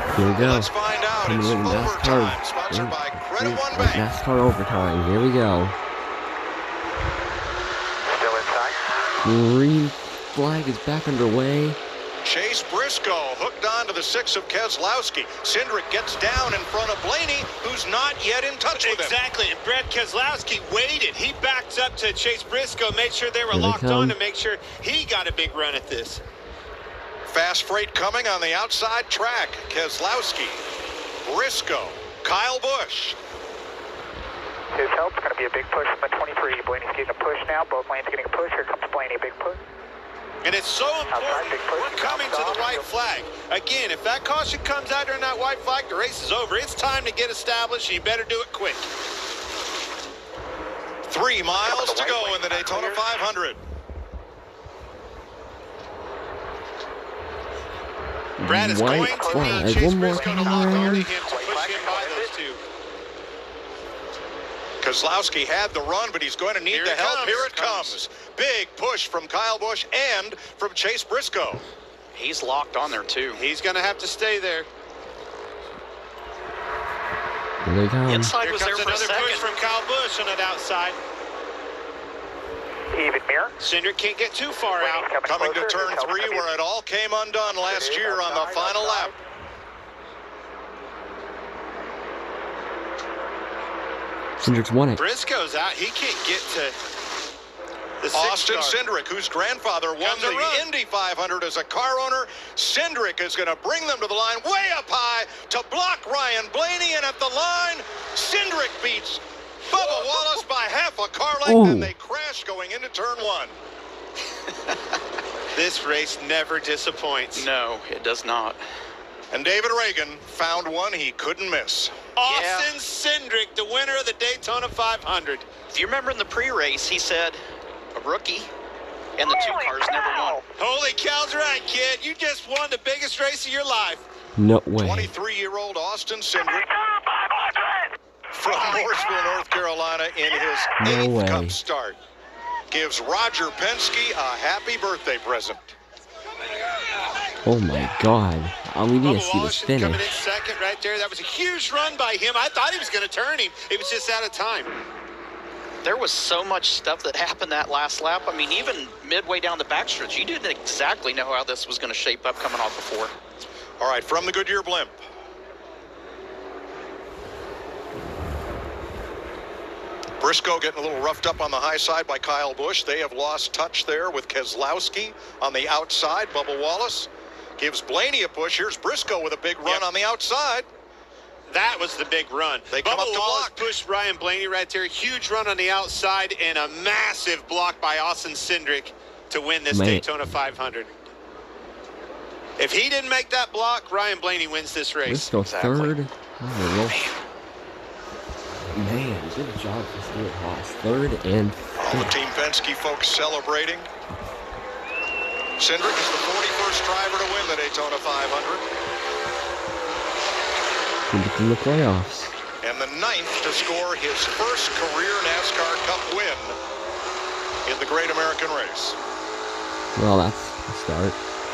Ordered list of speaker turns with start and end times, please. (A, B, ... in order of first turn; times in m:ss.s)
0:00.1-0:05.8 A
0:00.4-0:04.1 B
0:08.1-0:08.8 C
0:09.2-0:11.8 A
0:12.2-0:19.2 B
0:18.7-0:26.2 D
0:23.5-0:24.2 A
0:27.3-0:30.6 B
0:31.2-0:33.2 B
0:34.7-0:39.6 C
0:40.4-0:48.9 D
0:41.1-0:42.9 C
0:51.1-0:53.6 B
0:51.6-0:53.0 C
0:58.4-1:01.1 A
0:58.4-1:02.6 D
0:58.9-1:02.3 C
1:04.8-1:11.6 B
1:06.7-1:07.5 D
1:07.1-1:08.0 E
1:12.1-1:13.4 E
1:13.3-1:14.7 D
1:17.6-1:18.3 A
1:18.1-1:19.6 E
1:18.4-1:21.0 D
1:22.9-1:23.5 C
1:23.6-1:25.1 D
1:24.8-1:26.5 C
1:25.2-1:29.1 B
1:27.4-1:29.1 C
1:34.4-1:35.0 A
1:35.0-1:36.8 D
1:38.0-1:38.8 D
1:38.1-1:53.6 B
1:40.0-1:40.7 D
1:51.4-1:51.9 A
1:54.5-1:54.8 E
1:55.5-1:57.5 D
1:57.3-1:58.6 E
1:59.3-2:02.0 B
2:02.2-2:05.4 D
2:02.3-2:02.7 E
2:05.7-2:07.4 E
2:07.9-2:08.5 E
2:09.2-2:10.4 E
2:10.6-2:14.0 D
2:14.4-2:15.1 A
2:14.8-2:16.7 B
2:18.3-2:22.0 B
2:20.8-2:21.6 A
2:22.7-2:25.7 B
2:27.4-2:30.0 A
2:29.0-2:34.7 D
2:35.8-2:43.1 E
2:43.8-2:45.0 B
2:50.2-3:00.7 B
3:01.5-3:10.9 D
3:02.7-3:03.7 B
3:09.7-3:10.2 A
3:12.6-3:15.3 D
3:15.0-3:17.0 A
3:15.4-3:16.0 E
3:16.9-3:17.1 E
3:18.7-3:22.2 A
3:21.8-3:23.9 B
3:25.6-3:28.6 B
3:31.1-3:32.3 A
3:32.6-3:36.6 B
3:37.6-3:39.0 B
3:39.9-3:41.2 A